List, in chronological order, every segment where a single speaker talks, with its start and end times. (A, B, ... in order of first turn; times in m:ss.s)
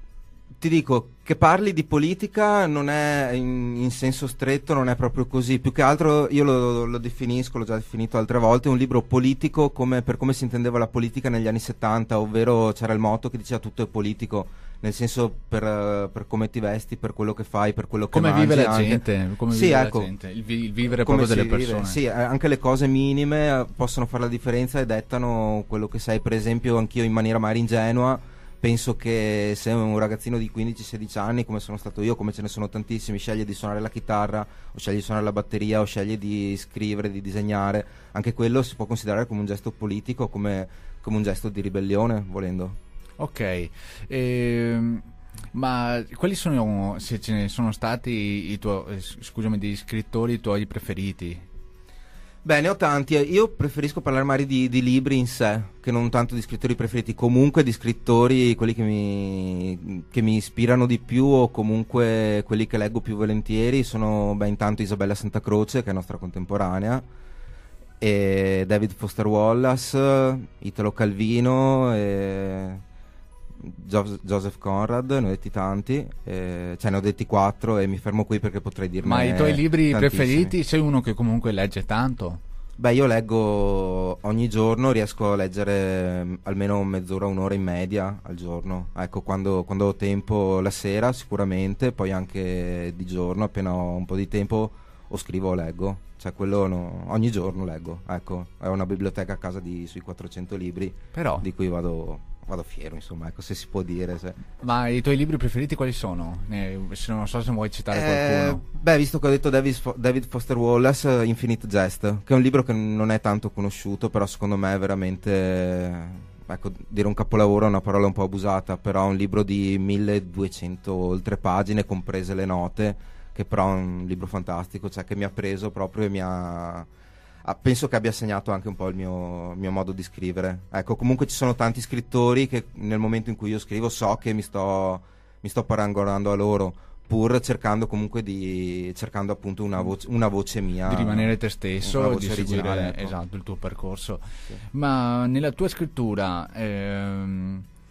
0:00.6-0:20.1 A
0:18.1-0:22.0 B
0:21.0-0:42.8 A
0:43.2-0:51.4 B
0:52.4-1:07.0 A
1:08.0-1:12.8 A
1:13.6-1:20.6 A
1:19.0-1:22.4 B
1:22.8-1:44.4 A
1:41.1-1:41.5 B
1:44.6-1:48.6 B
1:47.9-2:06.9 A
2:07.4-2:23.2 A
2:20.9-2:27.6 B